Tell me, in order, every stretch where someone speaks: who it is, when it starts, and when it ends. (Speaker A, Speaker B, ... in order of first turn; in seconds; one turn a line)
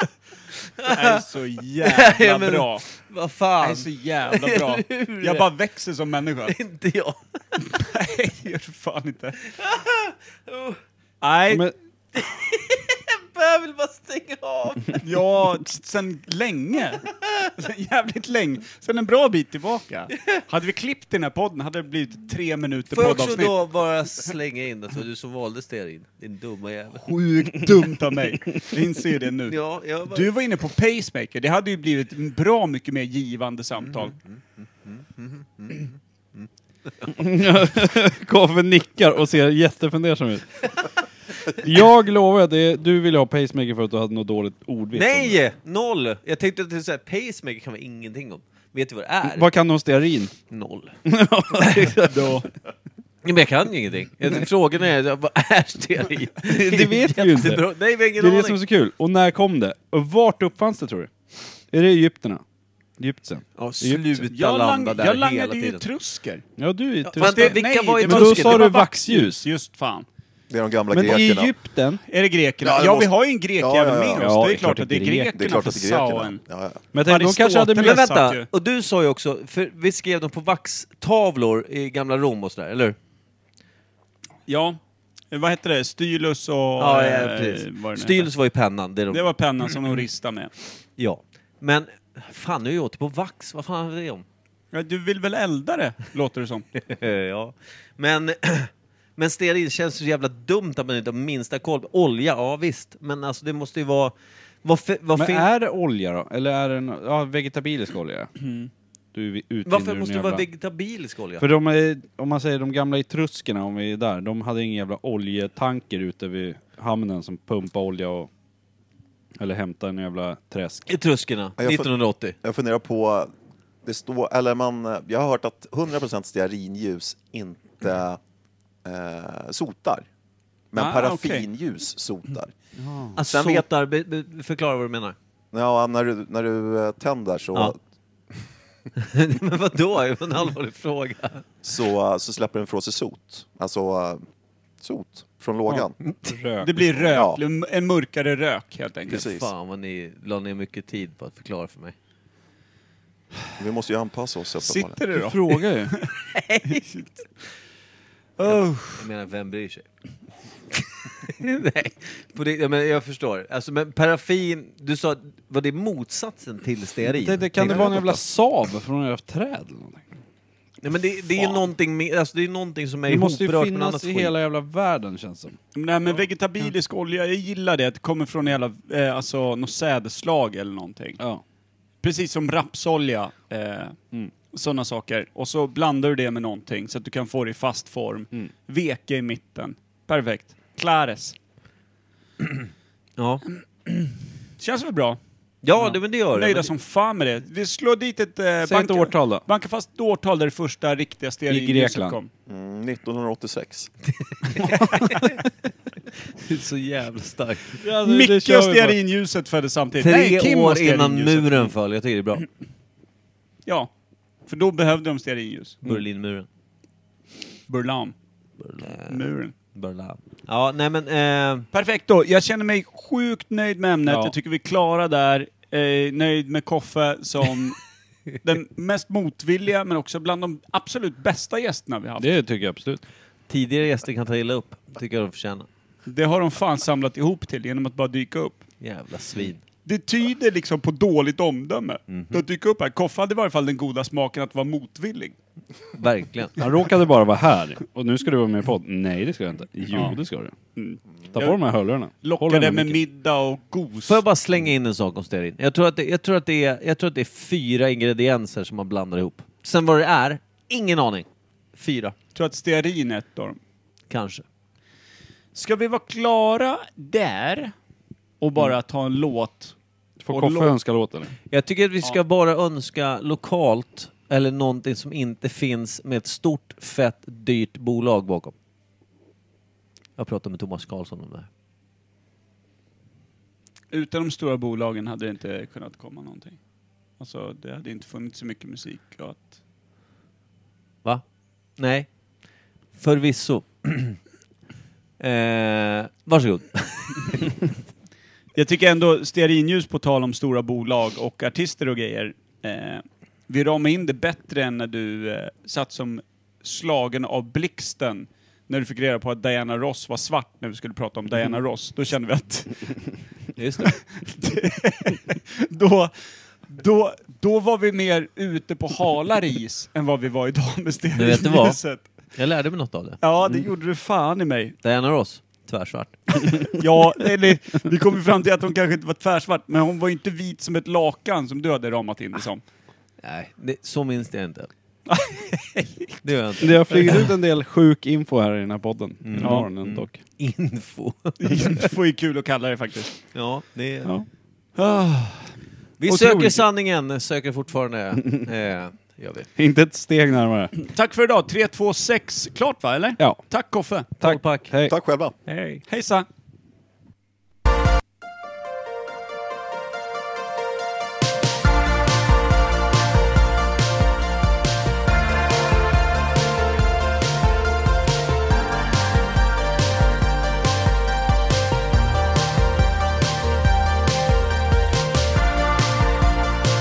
Speaker A: 0.8-1.2
Speaker B: 0.8-2.9
Speaker A: 1.8-5.5
Speaker B: 3.6-6.6
Speaker A: 6.5-7.6
Speaker B: 7.6-9.4
Speaker A: 9.5-10.8
Speaker B: 11.2-11.7
Speaker A: 12.1-15.0
Speaker B: 15.0-23.6
Speaker A: 20.1-20.4
Speaker A: 22.9-27.0
Speaker B: 26.9-34.2
Speaker A: 29.5-30.3
Speaker A: 35.0-35.8
Speaker C: 37.1-40.8
Speaker C: 41.4-45.4
Speaker A: 44.9-49.5
Speaker C: 49.2-50.3
Speaker A: 50.5-51.0
Speaker C: 51.1-52.0
Speaker A: 51.5-52.4
Speaker B: 52.1-52.5
Speaker A: 53.2-58.6
Speaker C: 56.5-57.6
Speaker C: 58.1-61.1
Speaker C: 61.7-62.4
Speaker C: 63.0-64.3
Speaker A: 63.6-65.8
Speaker B: 64.3-66.5
Speaker C: 66.6-69.5
Speaker B: 67.1-70.1
Speaker A: 67.2-68.7
Speaker D: 70.5-71.5
Speaker C: 70.9-72.0
Speaker B: 72.1-76.4
Speaker D: 72.6-74.4
Speaker C: 74.2-75.6
Speaker D: 75.3-76.8
Speaker C: 76.9-78.0
Speaker B: 77.0-78.5
Speaker A: 77.8-83.0
Speaker B: 84.5-84.8
Speaker B: 85.3-88.3
Speaker A: 86.8-89.3
Speaker B: 89.1-90.5
Speaker A: 91.0-94.2
Speaker B: 94.7-96.7
Speaker A: 96.8-105.5
Speaker C: 105.2-108.3
Speaker B: 108.4-108.7
Speaker C: 109.1-110.4
Speaker A: 109.7-111.5
Speaker C: 111.4-118.3
Speaker C: 119.4-120.9
Speaker A: 120.9-122.4
Speaker D: 121.6-123.3
Speaker D: 123.8-128.2
Speaker D: 128.8-130.1
Speaker D: 130.7-132.5
Speaker B: 130.8-131.5
Speaker C: 132.8-133.2
Speaker A: 133.2-135.2
Speaker D: 133.2-133.6
Speaker D: 135.5-137.8
Speaker A: 139.0-141.4
Speaker D: 141.6-144.2
Speaker D: 144.8-145.9
Speaker C: 145.7-147.2
Speaker A: 146.0-146.3
Speaker B: 146.6-149.4
Speaker D: 147.1-147.4
Speaker D: 149.1-149.5
Speaker A: 149.1-151.9
Speaker D: 153.6-155.0
Speaker B: 154.6-156.1
Speaker C: 155.1-155.9
Speaker A: 156.2-156.9
Speaker B: 156.7-157.1
Speaker B: 158.4-159.1
Speaker A: 158.4-159.9
Speaker A: 160.8-168.2
Speaker C: 167.0-170.1
Speaker A: 170.8-174.3
Speaker C: 173.1-175.6
Speaker B: 175.7-181.2
Speaker B: 182.0-183.9
Speaker B: 184.5-191.4
Speaker A: 193.2-193.4
Speaker B: 193.9-195.2
Speaker A: 195.6-196.7
Speaker B: 196.3-202.3
Speaker C: 198.7-199.4
Speaker C: 201.5-202.2
Speaker D: 202.5-203.9
Speaker A: 204.1-205.4
Speaker B: 204.6-205.4
Speaker A: 206.4-207.8
Speaker C: 207.8-209.0
Speaker B: 208.0-211.7
Speaker A: 210.0-212.4
Speaker B: 214.5-215.8
Speaker A: 215.8-216.4
Speaker B: 217.7-218.1
Speaker A: 218.6-221.7
Speaker B: 218.8-219.6
Speaker B: 221.7-227.8
Speaker C: 224.1-224.3
Speaker B: 228.4-232.3
Speaker C: 232.2-233.0
Speaker A: 233.5-235.7
Speaker B: 236.1-238.6
Speaker A: 238.8-239.6
Speaker B: 239.9-245.3
Speaker A: 242.1-242.4
Speaker A: 245.9-246.7
Speaker C: 246.6-250.5
Speaker B: 250.8-251.6
Speaker C: 251.3-253.0
Speaker B: 252.2-254.2
Speaker A: 254.1-262.1
Speaker B: 262.4-263.6
Speaker A: 264.1-264.4
Speaker B: 265.6-267.7
Speaker B: 268.4-269.8
Speaker C: 270.2-271.3
Speaker B: 270.3-270.7
Speaker A: 271.5-278.6
Speaker A: 280.2-281.5
Speaker B: 283.9-286.6
Speaker B: 287.2-289.6
Speaker A: 291.8-292.1
Speaker A: 292.9-294.2
Speaker A: 295.2-297.7
Speaker B: 298.6-312.8
Speaker A: 313.6-314.0
Speaker B: 314.1-316.1
Speaker B: 316.7-322.0
Speaker A: 321.2-321.8
Speaker A: 322.4-323.6
Speaker B: 323.2-324.8
Speaker A: 324.8-326.8
Speaker B: 326.4-332.6
Speaker A: 333.2-334.7
Speaker B: 335.1-336.2
Speaker A: 336.2-337.3
Speaker C: 336.6-340.2
Speaker A: 339.2-341.9
Speaker B: 339.4-339.7
Speaker B: 341.4-343.1
Speaker A: 343.3-344.1
Speaker B: 344.8-345.5
Speaker A: 346.0-349.5
Speaker B: 346.1-346.6
Speaker C: 349.6-350.7
Speaker B: 350.8-354.1
Speaker C: 354.2-354.9
Speaker A: 354.2-354.7
Speaker D: 354.9-355.4
Speaker B: 355.5-356.3